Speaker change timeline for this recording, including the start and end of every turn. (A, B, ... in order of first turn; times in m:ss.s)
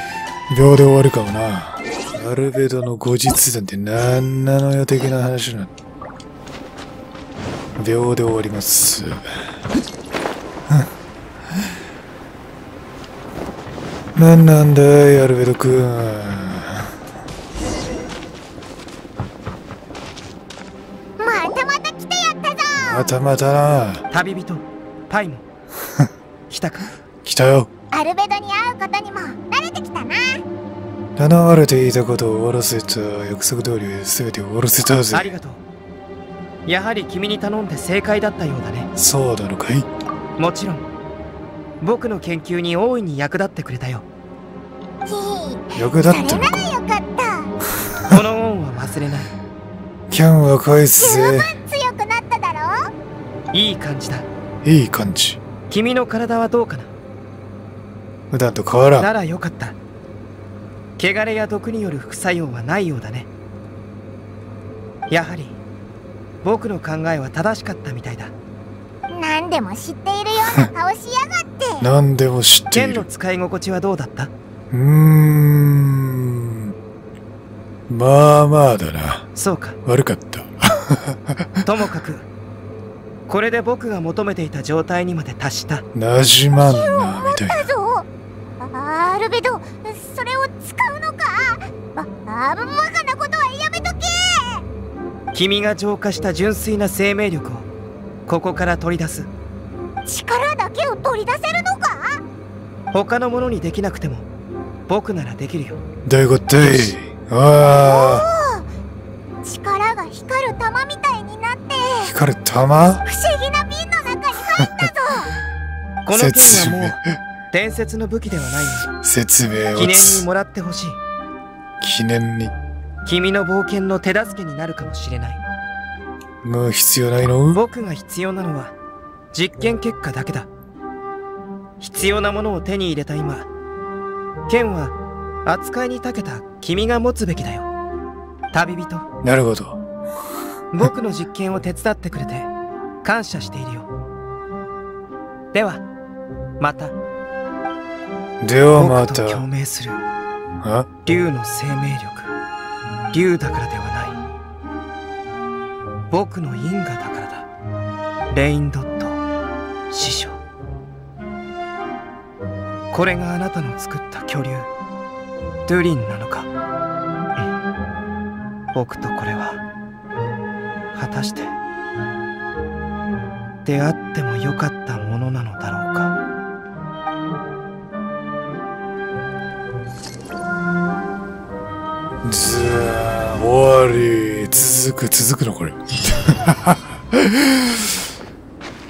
0:00.5-0:05.7 A
0:07.8-0:09.2 A
0:14.2-0:17.0 A
0:21.2-0:23.1 B
0:22.8-0:24.1 A
0:24.1-0:25.4 C
0:25.8-0:26.1 A
0:26.5-0:26.9 C
0:27.2-0:27.7 A
0:27.9-0:30.4 B
0:31.2-0:35.3 A
0:35.1-0:35.6 C
0:36.7-0:38.9 C
0:39.0-0:39.9 A
0:40.4-0:40.9 C
0:41.8-0:44.1 C
0:45.1-0:47.5 B
0:45.8-0:46.7 A
0:47.9-0:48.2 A
0:48.1-0:49.3 C
0:50.1-0:51.5 A
0:51.0-0:52.9 B
0:53.5-0:54.3 C
0:54.6-0:55.4 A
0:55.7-0:56.9 C
0:58.3-0:59.1 A
0:59.0-0:59.8 C
1:01.0-1:03.3 C
1:05.1-1:05.6 C
1:06.4-1:08.3 C
1:09.1-1:11.9 B
1:10.4-1:10.7 A
1:11.8-1:13.1 A
1:12.7-1:14.3 C
1:14.7-1:16.8 A
1:17.9-1:19.3 A
1:19.4-1:19.8 C
1:19.8-1:21.7 A
1:21.6-1:22.3 C
1:23.3-1:25.8 C
1:25.9-1:27.7 A
1:26.6-1:28.1 B
1:28.6-1:34.6 B
1:35.3-1:37.7 C
1:38.3-1:39.3 C
1:40.1-1:42.2 B
1:42.9-1:44.3 C
1:44.9-1:45.8 C
1:46.0-1:48.3 A
1:47.6-1:48.7 B
1:49.4-1:52.1 B
1:52.0-1:53.0 A
1:53.0-1:55.4 B
1:54.6-1:54.9 A
1:56.1-1:57.0 C
1:56.1-1:57.2 A
1:57.5-1:58.9 C
1:59.0-2:00.3 A
1:59.7-2:01.0 C
2:01.8-2:02.6 A
2:03.0-2:05.4 C
2:06.4-2:07.6 A
2:07.5-2:08.8 C
2:09.3-2:10.5 C
2:11.8-2:13.5 C
2:14.5-2:17.7 C
2:18.5-2:19.1 C
2:19.2-2:19.8 A
2:20.7-2:22.5 C
2:23.0-2:23.9 C
2:25.5-2:25.8 C
2:26.6-2:27.0 C
2:28.4-2:29.4 A
2:28.7-2:30.0 C
2:30.6-2:30.9 A
2:31.1-2:32.4 C
2:33.1-2:34.2 C
2:36.1-2:37.5 C
2:38.3-2:39.2 C
2:39.9-2:40.4 C
2:42.9-2:44.7 C
2:45.7-2:46.5 C
2:48.7-2:49.6 C
2:50.9-2:51.6 C
2:53.6-2:56.2 C
3:02.2-3:08.0 A